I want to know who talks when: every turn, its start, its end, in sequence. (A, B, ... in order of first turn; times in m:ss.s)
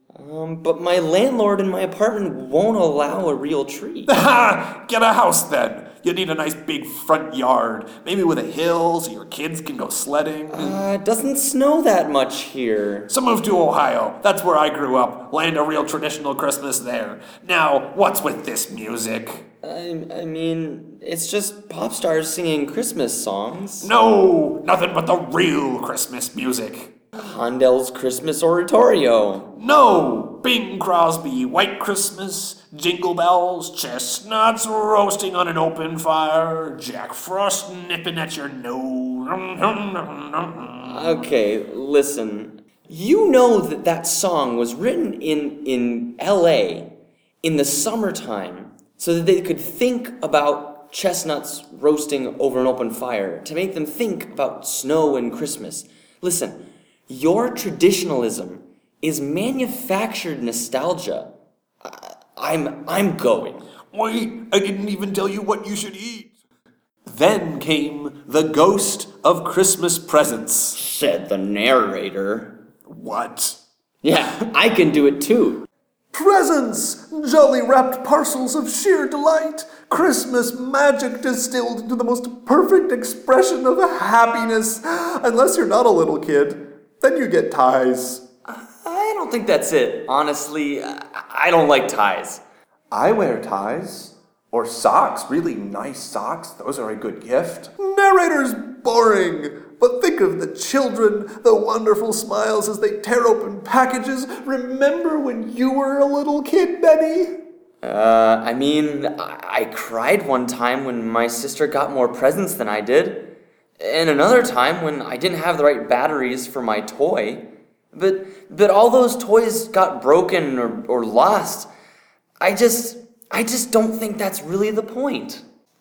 0:00.1-0:04.1 A
0:04.0-0:10.8 B
0:10.5-0:13.1 A
0:13.1-0:19.4 B
0:19.6-0:23.9 A
0:23.8-0:26.9 B
0:27.1-0:29.5 A
0:29.6-0:41.2 B
0:40.8-0:46.9 A
0:47.4-1:01.3 A
1:01.8-1:03.6 A
1:03.9-1:06.3 B
1:07.0-1:10.8 B
1:10.7-1:12.6 A
1:12.9-1:13.6 B
1:14.0-1:15.7 A
1:16.1-1:28.2 B
1:28.5-1:32.4 A
1:32.9-1:47.4 B
1:47.8-2:01.7 A
2:02.4-2:05.4 A